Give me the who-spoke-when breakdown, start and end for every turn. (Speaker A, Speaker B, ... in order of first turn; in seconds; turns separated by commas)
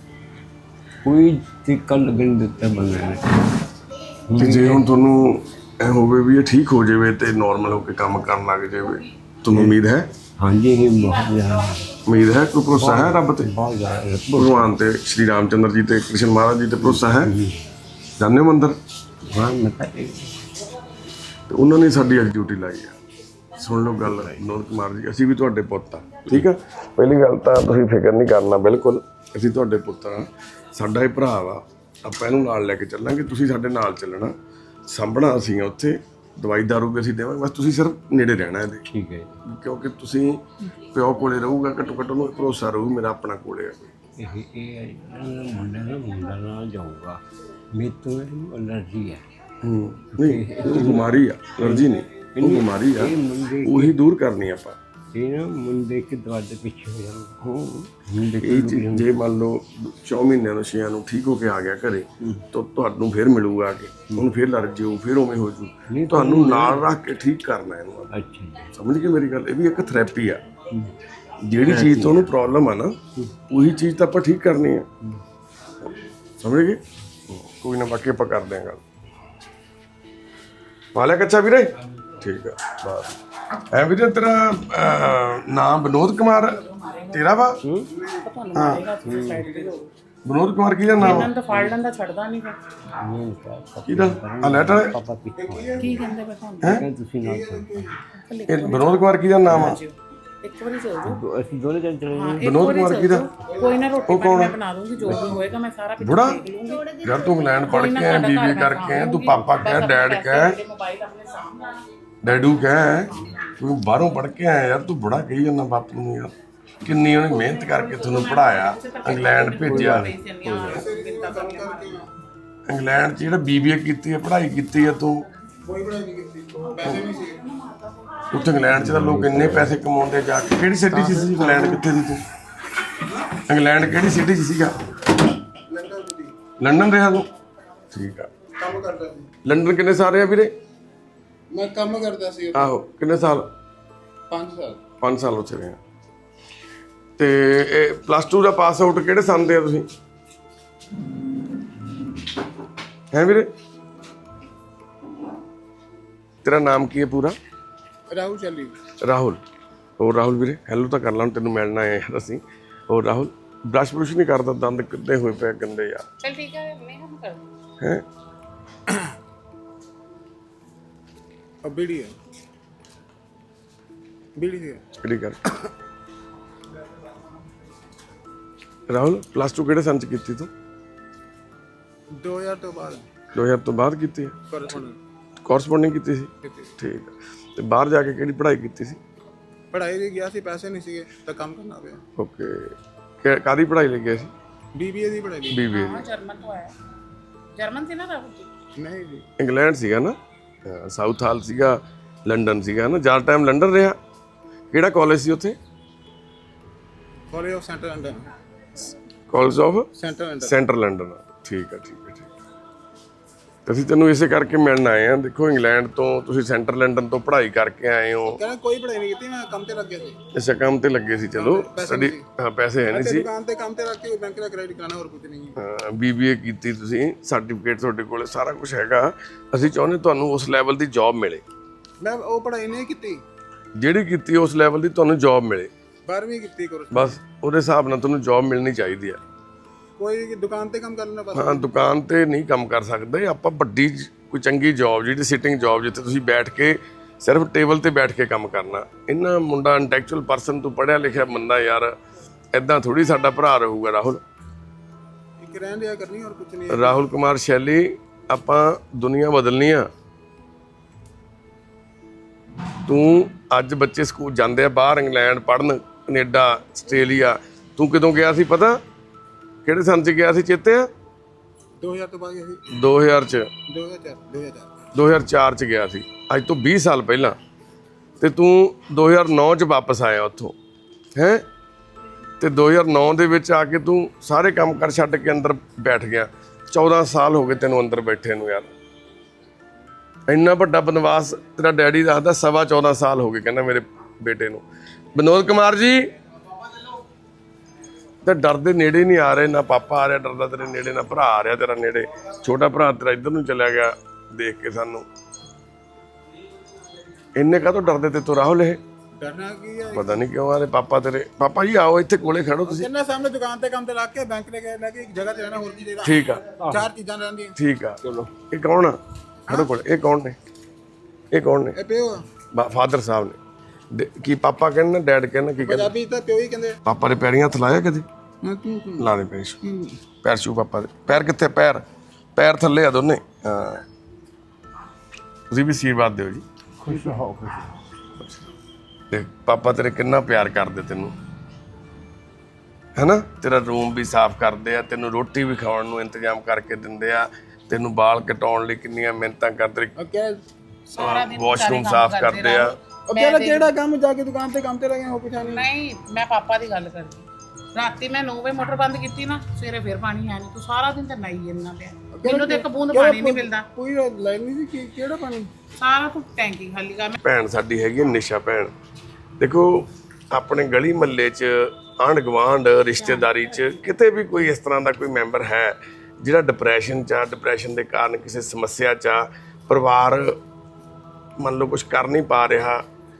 Speaker A: 1.0-3.6, Speaker A: 4.3-4.9, Speaker B: 4.4-10.1, Speaker A: 10.4-12.0, Speaker B: 12.1-13.5, Speaker A: 12.7-14.7, Speaker B: 14.3-17.3, Speaker A: 16.8-17.6, Speaker B: 18.2-18.8, Speaker A: 19.2-20.5, Speaker B: 21.5-23.0, Speaker B: 23.6-34.4, Speaker A: 24.0-24.5, Speaker B: 34.9-38.8, Speaker A: 38.9-39.4, Speaker B: 39.5-43.9, Speaker A: 44.2-47.2, Speaker A: 47.7-49.2, Speaker B: 49.6-54.8, Speaker A: 50.1-54.0, Speaker A: 55.1-57.4, Speaker B: 57.4-68.1, Speaker A: 58.1-59.1, Speaker A: 65.9-66.9, Speaker A: 68.1-68.7, Speaker B: 68.7-70.4, Speaker B: 71.4-73.0, Speaker A: 71.6-72.2, Speaker B: 73.5-74.9, Speaker B: 76.4-76.8, Speaker B: 77.3-78.8, Speaker B: 81.0-83.2, Speaker B: 83.7-87.6, Speaker C: 86.4-87.3, Speaker A: 87.6-87.9, Speaker D: 87.9-88.2, Speaker C: 88.2-89.9, Speaker B: 88.5-88.8, Speaker A: 89.0-89.5, Speaker B: 90.3-91.3, Speaker A: 91.0-91.8, Speaker C: 91.0-92.6, Speaker A: 93.0-96.0, Speaker B: 93.9-94.9, Speaker D: 95.4-96.2, Speaker C: 95.8-96.8, Speaker A: 96.6-97.9, Speaker D: 97.2-98.0, Speaker C: 98.2-101.2, Speaker B: 98.5-99.8, Speaker A: 101.0-102.6, Speaker C: 102.2-107.0, Speaker B: 102.4-103.3, Speaker D: 103.5-104.1, Speaker B: 104.1-104.5, Speaker A: 105.0-105.5, Speaker B: 106.0-106.4, Speaker B: 107.0-110.6, Speaker C: 107.7-113.5, Speaker B: 112.2-120.1, Speaker C: 117.2-122.0, Speaker A: 119.6-120.9, Speaker D: 120.7-122.1, Speaker B: 122.7-125.3, Speaker D: 125.7-127.4, Speaker C: 126.9-128.3, Speaker B: 128.3-132.2, Speaker A: 128.7-129.8, Speaker D: 131.3-131.8, Speaker B: 133.4-134.8, Speaker D: 135.7-136.3, Speaker B: 136.6-137.3, Speaker B: 137.9-138.3, Speaker D: 138.6-139.3, Speaker B: 139.4-140.5, Speaker D: 141.5-142.7, Speaker B: 142.5-143.5, Speaker D: 144.3-144.8, Speaker B: 145.0-145.8, Speaker B: 147.2-149.9, Speaker B: 153.1-153.5, Speaker B: 156.4-157.4, Speaker D: 158.1-158.8, Speaker B: 159.0-159.4, Speaker B: 160.0-166.1, Speaker C: 166.2-167.4, Speaker B: 167.8-168.1, Speaker D: 171.6-172.2, Speaker D: 174.4-174.8, Speaker B: 175.0-175.4, Speaker B: 178.9-180.5, Speaker D: 182.2-183.1, Speaker B: 183.3-184.4, Speaker D: 184.5-185.0, Speaker B: 185.4-189.0, Speaker D: 189.7-192.0, Speaker B: 192.2-194.3, Speaker D: 194.8-195.6, Speaker B: 195.5-196.0, Speaker C: 195.7-196.7, Speaker C: 197.6-198.5, Speaker D: 198.8-199.3, Speaker B: 199.4-204.0, Speaker B: 204.7-205.6, Speaker D: 207.3-208.2, Speaker B: 209.3-209.9, Speaker D: 210.0-210.5, Speaker B: 210.4-212.3, Speaker B: 213.7-218.4, Speaker D: 218.3-220.2, Speaker B: 220.3-223.3, Speaker D: 221.4-222.2, Speaker D: 222.9-225.5, Speaker B: 225.6-231.4, Speaker D: 232.0-233.2, Speaker B: 233.8-235.7, Speaker D: 236.1-237.2, Speaker B: 236.9-239.2, Speaker D: 240.0-241.6, Speaker B: 241.3-251.9, Speaker B: 252.5-254.2, Speaker D: 255.4-257.0, Speaker B: 256.7-259.9, Speaker B: 262.9-268.8, Speaker B: 269.6-270.9, Speaker D: 271.8-272.6, Speaker B: 272.7-273.5, Speaker D: 273.7-274.7, Speaker B: 274.9-277.4, Speaker B: 278.2-280.6, Speaker B: 281.2-281.4, Speaker B: 282.4-288.7, Speaker B: 290.3-294.6, Speaker B: 295.1-296.1, Speaker B: 298.2-305.1, Speaker B: 307.4-308.8, Speaker D: 309.2-310.2, Speaker B: 309.9-312.9, Speaker D: 312.7-317.5, Speaker B: 316.0-316.4, Speaker B: 317.6-320.4, Speaker A: 318.0-318.3, Speaker B: 321.3-321.8, Speaker D: 321.8-322.2, Speaker B: 322.5-323.4, Speaker B: 323.9-325.9, Speaker D: 325.6-326.8, Speaker B: 326.9-328.1, Speaker D: 328.4-330.0, Speaker B: 329.0-329.6, Speaker B: 330.2-331.8, Speaker B: 332.4-333.8, Speaker B: 335.5-336.4, Speaker A: 336.8-337.7, Speaker D: 336.9-337.1, Speaker B: 339.1-341.1, Speaker B: 343.0-349.9, Speaker D: 350.0-350.4, Speaker B: 350.9-352.8, Speaker C: 350.9-353.7, Speaker D: 353.1-355.7, Speaker C: 355.4-363.7, Speaker D: 362.2-365.5, Speaker C: 365.8-367.1, Speaker B: 367.2-368.7, Speaker B: 369.4-380.4, Speaker C: 373.0-373.5, Speaker B: 381.4-382.8